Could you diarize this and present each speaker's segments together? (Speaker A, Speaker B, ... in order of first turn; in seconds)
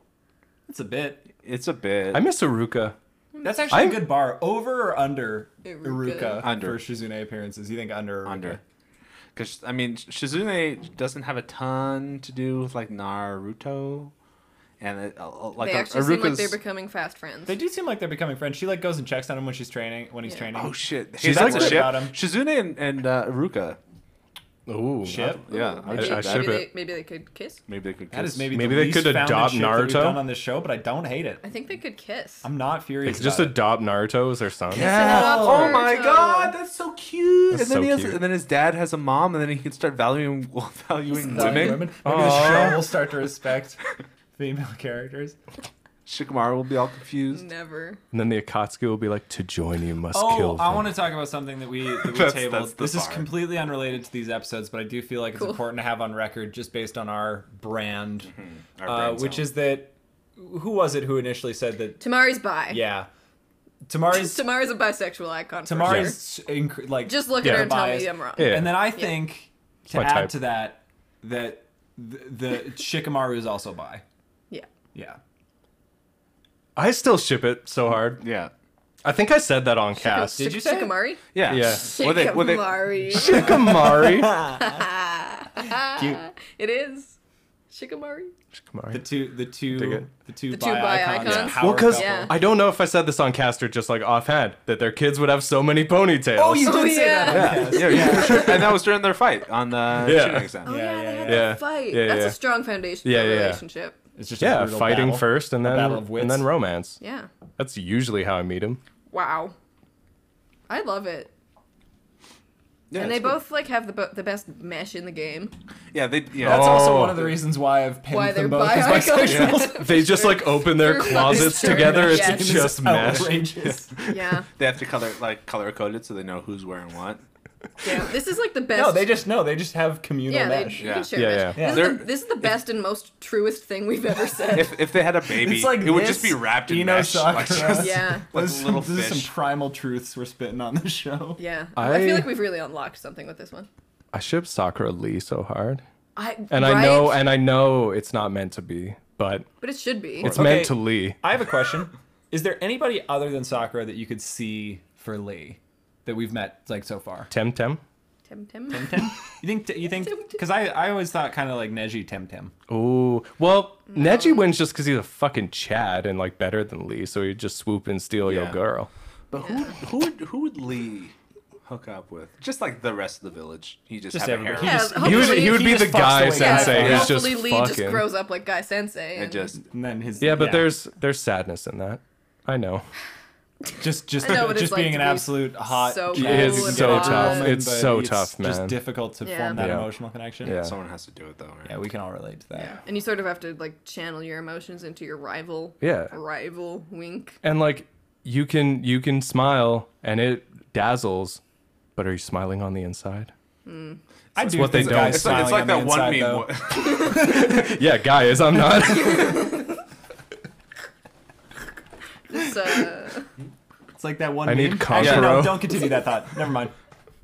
Speaker A: 0.7-1.2, 3.4-8.6, 17.5-22.1, 25.0-25.4, 28.1-31.4, 32.4-33.6, 34.8-35.9, 41.3-43.8, 44.4-45.4, 50.1-58.3, 58.9-62.0, 62.7-63.1, 63.9-64.4, 65.6-74.0, 74.9-75.2, 80.4-80.9, 83.4-84.8, 85.9-86.2, 88.9-92.4, 96.3-98.8, 100.7-101.5, 104.2-106.5, 116.4-119.9, 121.0-124.1, 128.7-130.9, 131.5-132.0, 135.3-141.4, 150.2-157.3, 158.7-162.5, 174.1-177.2, 179.6-180.7, 183.8-190.6, 191.6-192.8, 204.3-207.7, 214.0-216.7
Speaker B: 1.4-2.2, 6.4-6.8, 8.2-8.6, 9.3-14.1, 14.8-16.6, 20.5-23.8, 25.2-26.6, 27.7-28.5, 34.7-41.9, 46.0-47.5, 51.9-53.3, 58.3-59.5, 78.2-78.5, 81.3-82.8, 91.2-91.6, 97.2-100.7, 112.9-113.3, 115.9-117.1, 119.0-119.6, 124.5-127.2, 130.8-132.5, 134.5-139.3, 168.2-168.6, 169.3-171.1, 171.7-174.9, 179.2-179.6, 190.5-191.8, 204.3-207.0, 214.9-215.4
Speaker C: 2.1-2.9, 3.7-4.0, 21.2-22.0, 24.7-25.4, 25.9-26.7, 28.5-30.2, 33.0-34.9, 37.5-38.2, 42.0-43.0, 48.1-50.9, 65.8-66.1, 67.4-67.8, 68.4-68.9, 69.9-70.3, 76.8-78.2, 79.0-80.5, 81.5-81.9, 83.1-84.5, 88.6-89.1, 89.7-90.0, 91.6-96.9, 100.0-100.5, 101.2-102.4, 103.0-103.6, 104.4-107.0, 107.6-108.8, 116.4-117.4, 119.7-123.6, 131.1-131.7, 141.8-142.4, 144.1-145.8, 146.5-149.5, 150.2-151.2, 157.3-157.8, 162.7-168.9, 174.6-178.1, 180.2-182.9, 186.1-188.8, 189.6-189.9, 190.4-190.8, 195.8-196.1, 197.4-201.4, 201.9-203.3, 204.4-205.6, 206.9-209.6, 214.4-215.9
Speaker D: 3.3-3.9, 5.6-6.4, 15.6-17.6, 25.5-27.6, 31.4-32.5, 34.7-36.5, 41.1-41.9, 47.3-48.0, 55.3-55.6, 62.0-62.8, 64.1-66.2, 67.0-69.3, 80.0-87.1, 87.7-88.3, 90.5-92.3, 96.6-98.7, 100.7-104.0, 107.0-107.3, 109.1-109.5, 110.7-111.3, 112.9-115.5, 118.1-123.0, 124.1-124.5, 127.8-129.1, 130.3-134.8, 137.7-138.3, 141.4-143.7, 146.2-147.2, 149.6-150.6, 158.3-159.2, 159.9-160.4, 163.9-164.5, 169.4-169.8, 174.6-179.5, 184.2-187.6, 189.2-189.6, 192.5-197.4, 203.7-204.0, 208.9-209.7, 212.3-213.2